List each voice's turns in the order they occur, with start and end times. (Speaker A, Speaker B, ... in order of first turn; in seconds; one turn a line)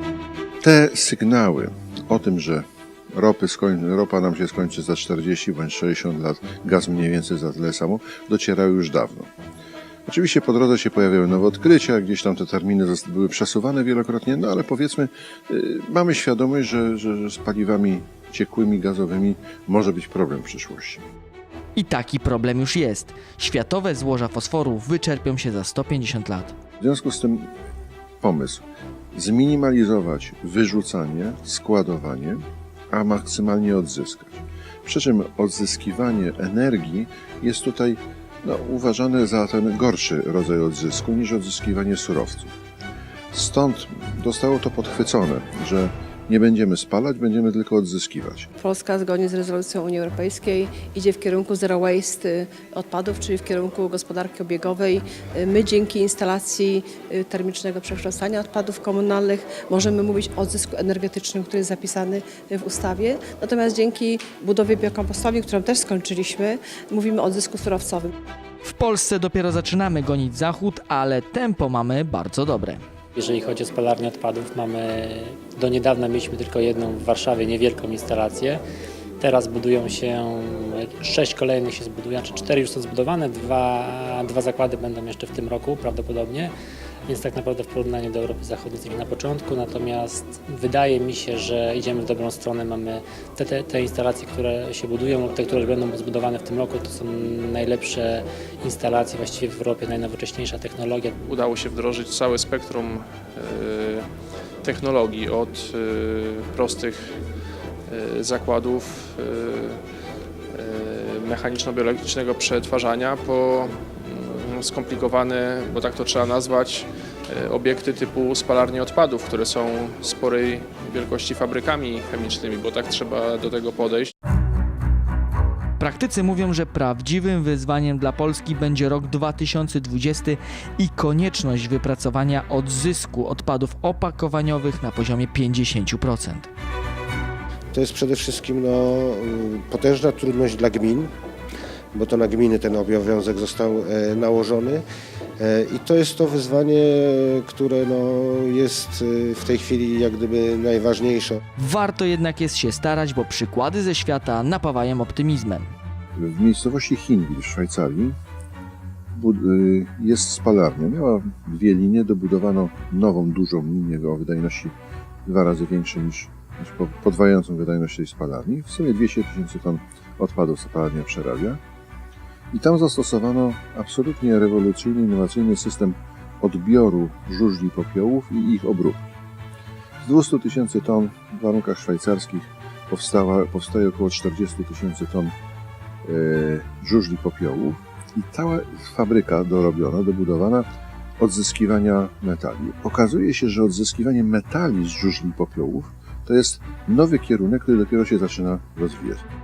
Speaker A: 0.6-9.3
Speaker A: 10.1-21.1
Speaker B: 21.8-26.5
Speaker A: 26.8-27.5
Speaker A: 28.2-42.5
Speaker A: 43.3-48.5
Speaker C: 48.6-68.1
Speaker B: 68.6-72.8
Speaker D: 73.2-78.6
Speaker D: 79.2-86.5
Speaker D: 87.1-101.2
Speaker E: 101.2-104.0
Speaker E: 104.6-107.1
Speaker E: 107.9-109.8
Speaker E: 110.5-124.1
Speaker B: 125.8-136.5
Speaker F: 137.7-141.1
Speaker F: 141.9-144.8
Speaker F: 145.4-151.4
Speaker B: 151.6-155.7
Speaker A: 156.2-158.2
Speaker A: 159.1-171.6
Speaker A: 172.5-179.1
Speaker A: 180.0-185.3
Speaker A: 186.0-190.7
Speaker A: 191.2-199.2